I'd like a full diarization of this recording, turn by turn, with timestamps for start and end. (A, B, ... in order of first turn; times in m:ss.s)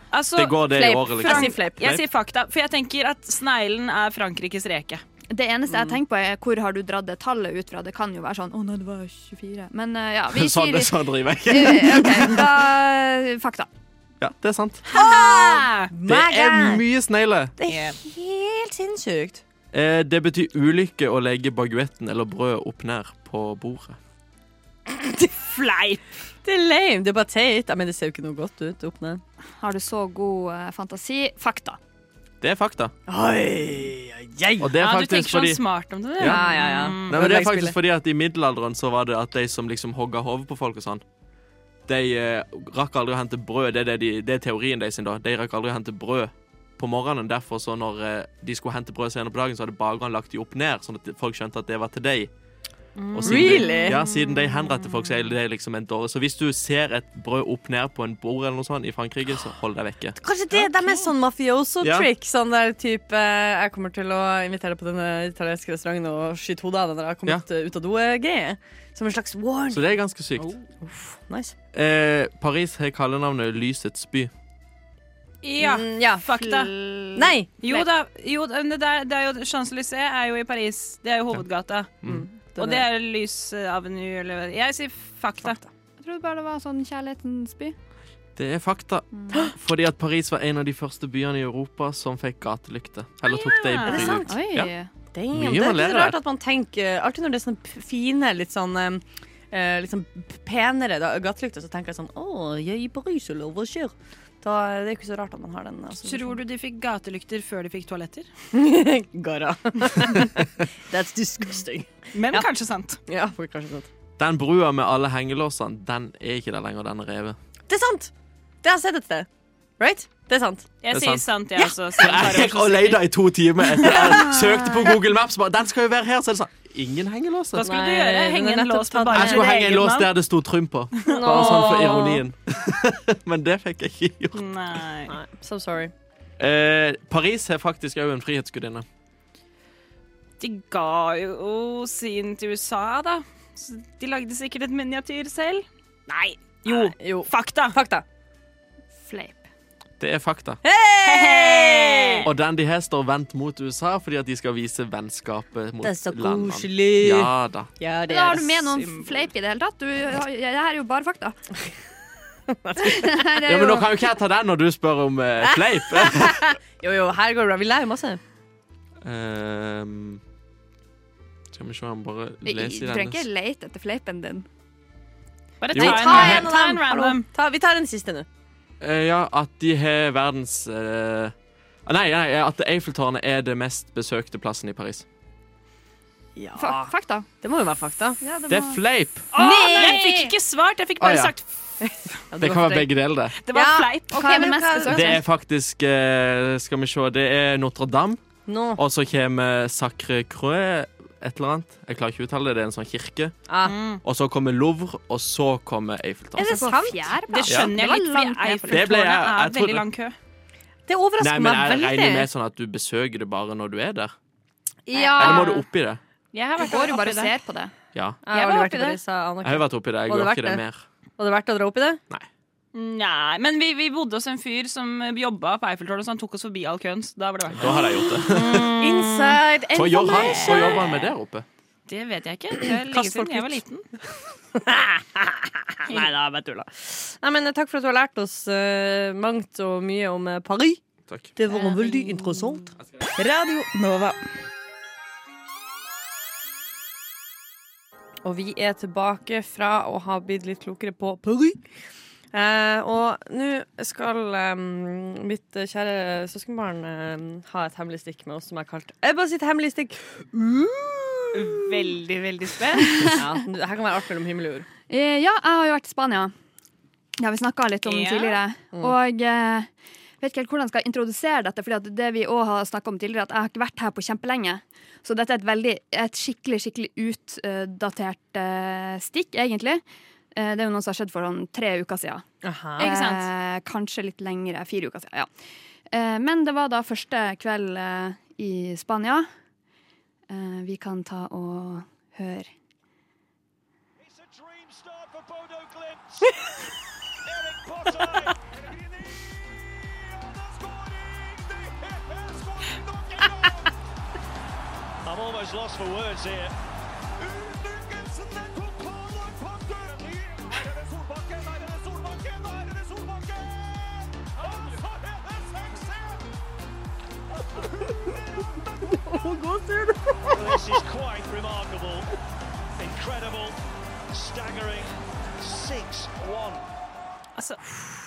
0:00.1-0:05.0 A
0:00.4-0:01.6 B
0:01.2-0:02.0 C
0:05.3-0:13.7 D
0:10.3-0:12.7 B
0:14.2-0:14.8 B
0:14.9-0:16.8 C
0:14.9-0:15.9 A
0:16.0-0:17.5 B
0:17.6-0:19.4 C
0:17.7-0:18.0 A
0:19.7-0:24.0 B
0:25.3-0:26.0 A
0:26.4-0:29.2 C
0:29.6-0:31.8 D
0:32.4-0:32.9 B
0:33.1-0:34.7 C
0:34.6-0:35.6 B
0:34.8-0:37.2 A
0:36.2-0:41.0 B
0:36.2-0:37.8 C
0:41.9-0:52.3 B
0:53.0-0:54.2 A
0:53.1-1:00.2 B
0:53.2-0:54.0 C
1:00.2-1:09.9 C
1:01.8-1:02.1 B
1:09.7-1:10.6 B
1:10.8-1:11.5 C
1:11.7-1:14.3 B
1:15.4-1:16.7 A
1:15.6-1:16.2 C
1:16.4-1:17.8 D
1:17.2-1:17.8 C
1:17.6-1:21.9 A
1:22.0-1:22.8 C
1:22.6-1:25.6 A
1:26.0-1:27.8 D
1:28.4-1:34.7 B
1:33.3-1:34.1 A
1:33.9-1:34.3 C
1:34.0-1:34.9 D
1:35.1-1:46.4 C
1:35.3-1:36.2 B
1:46.0-1:48.3 A
1:48.5-1:52.5 C
1:52.1-1:53.0 A
1:53.1-1:53.9 C
1:54.2-1:57.4 B
1:57.7-1:58.1 C
1:58.6-1:59.3 C
1:59.8-2:00.7 C
2:00.8-2:03.1 A
2:00.9-2:07.7 B
2:03.8-2:04.3 A
2:07.6-2:10.1 A
2:07.6-2:09.5 C
2:09.1-2:14.5 B
2:11.0-2:11.9 A
2:11.0-2:12.2 C
2:14.4-2:15.1 A
2:15.1-2:15.9 C
2:16.4-2:18.9 B
2:20.4-2:27.8 A
2:26.7-2:28.0 C
2:29.1-2:29.4 D
2:30.0-2:30.6 B
2:30.6-2:32.2 C
2:31.0-2:32.3 A
2:32.2-2:37.7 B
2:35.8-2:38.7 C
2:38.1-2:41.4 D
2:38.7-2:39.3 A
2:42.5-2:43.2 C
2:42.8-2:43.9 D
2:43.4-2:46.6 B
2:45.4-2:48.2 C
2:49.0-2:50.2 B
2:51.5-2:53.3 B
2:52.4-2:54.5 D
2:55.6-2:57.2 A
2:55.7-2:58.3 C
2:55.7-2:56.5 B
2:58.8-3:01.3 B
3:01.9-3:05.0 B
3:06.4-3:08.2 C
3:06.6-3:07.3 D
3:08.2-3:08.8 D
3:08.5-3:09.3 B
3:09.3-3:10.3 C
3:09.3-3:11.5 A
3:11.0-3:11.3 B
3:11.8-3:15.2 C
3:12.4-3:13.4 B
3:13.4-3:14.6 A
3:14.1-3:15.2 D
3:14.9-3:18.2 B
3:18.5-3:18.8 C
3:18.8-3:23.4 B
3:23.5-3:23.8 C
3:23.6-3:24.0 A
3:24.0-3:26.8 B
3:26.4-3:27.1 C
3:26.4-3:28.9 D
3:27.3-3:30.2 A
3:27.5-3:27.7 B
3:28.7-3:29.9 B
3:30.9-3:32.3 C
3:31.2-3:34.1 B
3:34.9-3:35.4 C
3:34.9-3:35.6 D
3:35.0-3:35.4 A
3:35.2-3:36.0 B
3:36.3-3:37.3 A
3:36.6-3:37.7 D
3:37.9-3:38.2 B
3:38.2-3:40.6 C
3:38.4-3:38.8 A
3:38.4-3:38.9 D
3:39.4-3:40.8 B
3:41.2-3:42.0 C
3:42.7-3:49.4 A
3:47.5-3:48.7 B
3:48.4-3:50.8 C
3:49.7-3:51.5 B
3:50.1-3:51.0 A
3:51.9-3:53.8 A
3:52.6-3:53.6 C
3:54.6-4:00.8 C
4:01.1-4:01.3 B
4:01.4-4:02.8 C
4:03.4-4:03.7 D
4:08.2-4:11.6 C
4:12.3-4:21.7 C
4:21.3-4:23.2 A
4:22.8-4:23.2 D
4:23.1-4:24.7 C
4:24.9-4:26.3 D
4:27.2-4:29.7 D
4:27.8-4:28.4 A
4:30.2-4:39.8 D
4:40.4-4:42.2 D
4:42.4-4:42.9 C
4:42.8-4:43.3 A
4:42.8-4:45.3 D
4:45.9-4:49.3 D
4:50.3-4:52.5 D
4:54.0-4:56.3 E
4:57.2-4:59.1 E
4:59.9-5:03.6 E
5:05.0-5:06.5 E
5:07.3-5:16.2 E
5:19.0-5:20.6 C
5:20.3-5:22.1 E
5:22.8-5:23.6 E
5:24.1-5:26.6 E
5:27.4-5:27.6 A